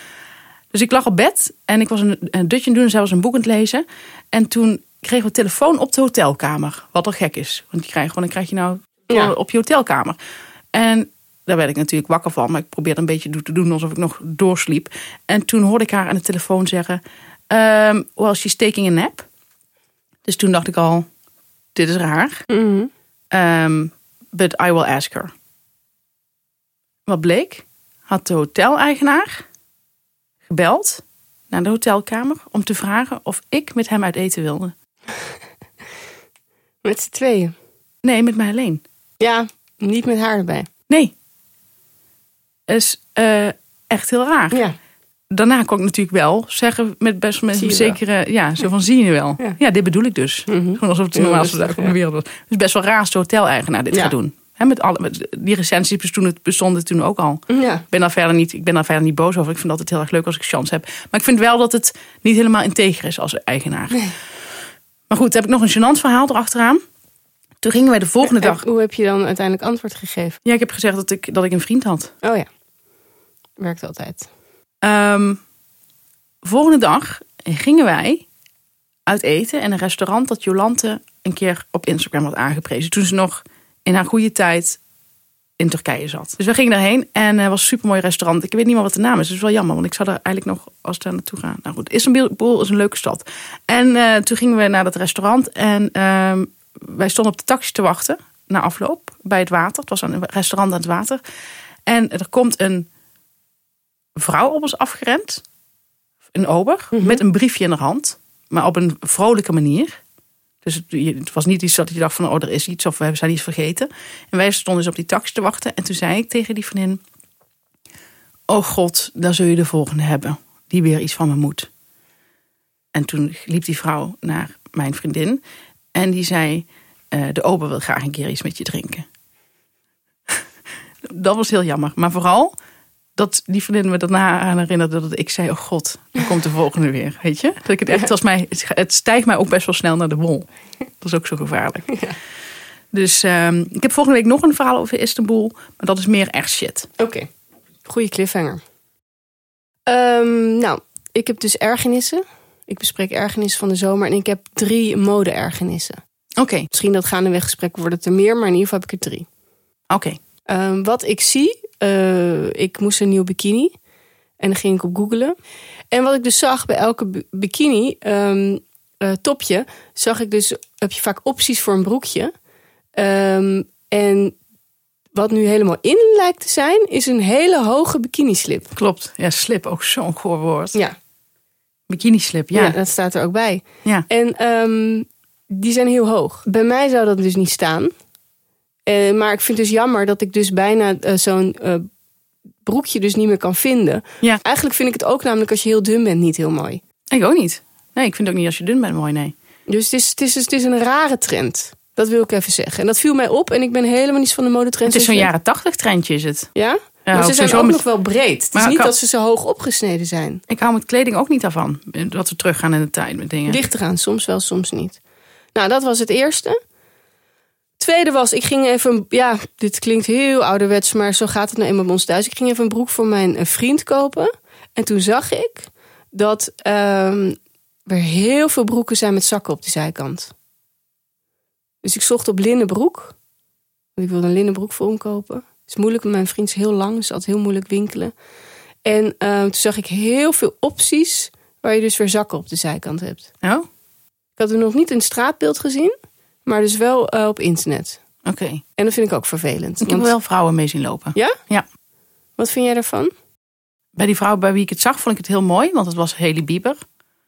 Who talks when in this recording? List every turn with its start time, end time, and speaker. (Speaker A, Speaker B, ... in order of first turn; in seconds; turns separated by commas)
Speaker A: 0.7-10.2, Speaker A: 10.7-19.3, Speaker A: 20.2-21.1, Speaker A: 21.8-22.4, Speaker B: 22.5-22.9, Speaker A: 23.3-25.3, Speaker A: 27.1-29.4, Speaker A: 30.5-34.7, Speaker B: 36.8-37.5, Speaker A: 38.0-38.8, Speaker B: 39.2-40.7, Speaker A: 40.9-41.1, Speaker A: 42.7-44.6, Speaker B: 44.5-44.8, Speaker A: 45.3-64.1, Speaker B: 47.5-48.0, Speaker B: 50.5-51.9, Speaker B: 57.5-57.9, Speaker A: 65.1-66.8, Speaker A: 67.6-68.6, Speaker B: 68.2-70.4, Speaker A: 70.5-72.1, Speaker B: 72.2-72.5, Speaker B: 73.6-74.3, Speaker A: 74.8-75.4, Speaker A: 76.4-78.2, Speaker A: 79.1-84.8, Speaker A: 85.6-101.2, Speaker A: 101.9-102.9, Speaker A: 104.2-105.4, Speaker A: 106.3-110.0, Speaker B: 106.9-107.2, Speaker A: 110.6-117.0, Speaker A: 118.5-121.7, Speaker A: 122.9-125.4, Speaker A: 125.9-129.1, Speaker A: 131.1-132.5, Speaker A: 133.2-140.5, Speaker A: 141.0-142.0, Speaker B: 141.9-142.2, Speaker A: 142.9-146.9, Speaker B: 147.0-147.3, Speaker B: 147.8-148.6, Speaker B: 149.9-156.0, Speaker A: 156.4-156.7, Speaker B: 156.7-159.3, Speaker A: 159.9-160.2, Speaker B: 160.5-163.7, Speaker B: 164.4-165.4, Speaker B: 165.9-172.3, Speaker B: 173.0-174.4, Speaker B: 175.1-178.7, Speaker A: 178.8-180.8, Speaker A: 181.9-182.8, Speaker B: 182.5-187.9, Speaker B: 188.9-191.9, Speaker B: 192.7-196.8, Speaker A: 197.1-199.3, Speaker B: 199.7-205.3, Speaker A: 204.9-206.5, Speaker B: 206.6-210.4, Speaker A: 207.1-207.8, Speaker A: 208.5-208.9, Speaker A: 210.5-213.6, Speaker B: 213.5-215.0, Speaker B: 215.6-216.6, Speaker B: 217.8-230.3, Speaker B: 231.8-233.2, Speaker B: 234.0-238.1, Speaker B: 238.8-243.3, Speaker A: 243.4-243.7, Speaker B: 244.4-245.9, Speaker B: 246.5-248.0, Speaker A: 248.2-248.6, Speaker B: 248.8-250.1, Speaker A: 249.8-251.7, Speaker B: 252.4-253.1, Speaker A: 254.0-256.8